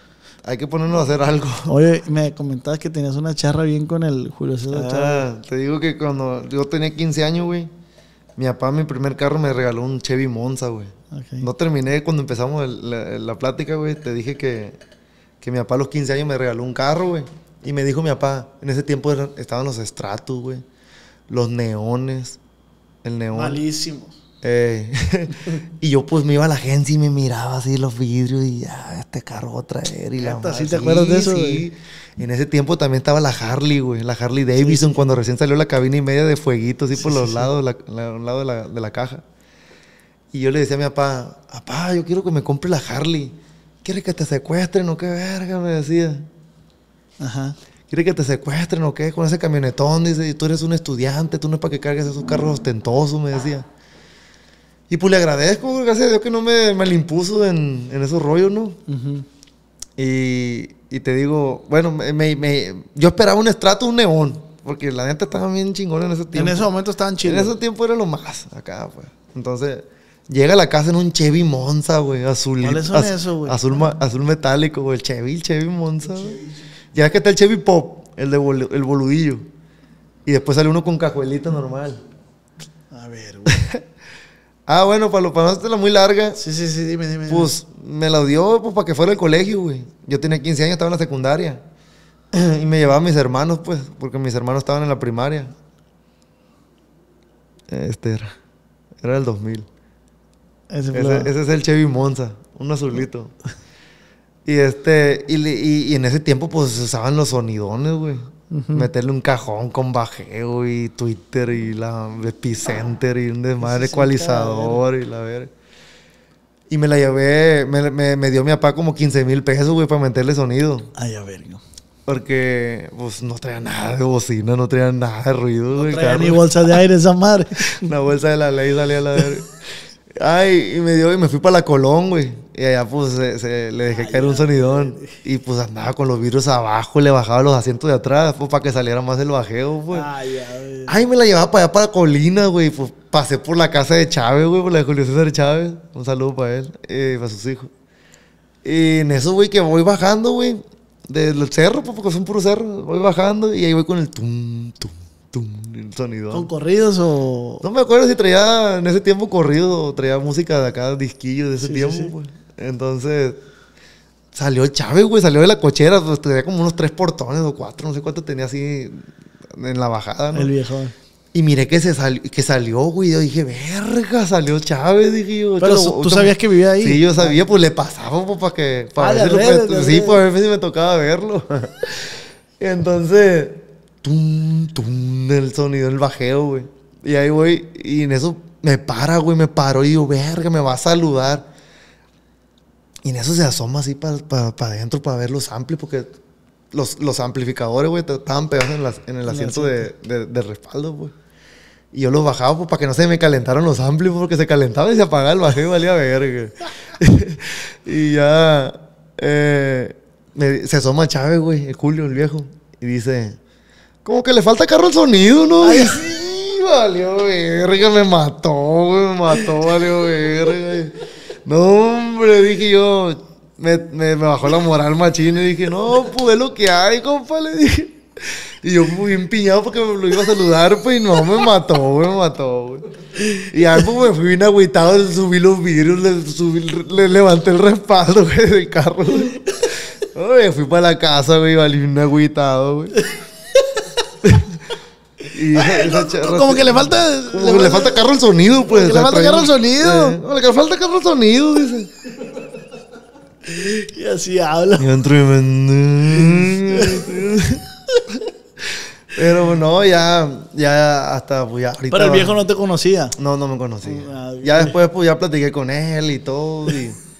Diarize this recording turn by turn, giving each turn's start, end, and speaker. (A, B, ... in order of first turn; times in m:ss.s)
0:00.4-0:01.8 A
0:01.7-0:05.2 B
0:04.7-0:07.7 A
0:08.4-0:14.8 A
0:11.1-0:11.5 B
0:15.4-0:20.6 A
0:21.3-0:22.4 A
0:23.0-0:23.6 A
0:23.3-0:24.2 B
0:24.4-0:39.2 A
0:30.2-0:31.6 B
0:34.6-0:35.0 B
0:36.9-0:37.5 B
0:40.3-0:46.3 A
0:47.2-0:47.6 B
0:47.9-0:53.6 A
0:54.9-0:58.8 A
0:58.9-0:59.2 B
1:00.0-1:06.7 A
1:06.3-1:07.5 B
1:07.2-1:16.4 A
1:12.6-1:13.6 B
1:16.9-1:19.5 A
1:20.2-1:22.0 A
1:22.9-1:23.6 B
1:23.5-1:23.8 A
1:24.7-1:26.4 A
1:26.4-1:27.5 B
1:27.3-1:31.6 A
1:32.3-1:35.5 A
1:37.7-1:38.3 A
1:39.0-1:39.7 A
1:40.7-1:41.3 B
1:40.9-1:43.3 A
1:44.4-1:55.5 A
1:48.5-1:48.9 B
1:53.6-1:54.8 B
1:56.7-2:00.9 A
2:00.9-2:01.6 B
2:02.1-2:06.8 A
2:05.7-2:07.8 B
2:07.6-2:09.6 A
2:10.1-2:20.1 A
2:13.9-2:15.2 B
2:19.9-2:21.0 B
2:20.9-2:27.7 A
2:28.6-2:36.5 A
2:36.3-2:37.6 B
2:37.6-2:43.4 A
2:41.6-2:42.1 B
2:44.3-2:50.5 A
2:50.3-2:50.9 B
2:51.3-3:11.5 A
2:55.6-2:57.4 B
2:59.0-3:00.2 B
3:13.0-3:16.1 A
3:16.7-3:21.1 A
3:19.2-3:19.9 B
3:21.9-3:33.4 A
3:34.0-4:03.0 A
3:35.6-3:36.0 B
4:04.2-4:04.6 A
4:05.3-4:11.9 A
4:05.5-4:08.0 B
4:08.7-4:10.2 B
4:13.4-4:15.0 B
4:14.8-4:18.2 A
4:16.1-4:17.1 B
4:19.1-4:22.4 A
4:21.9-4:23.2 B
4:23.2-4:27.0 A
4:23.8-4:24.8 B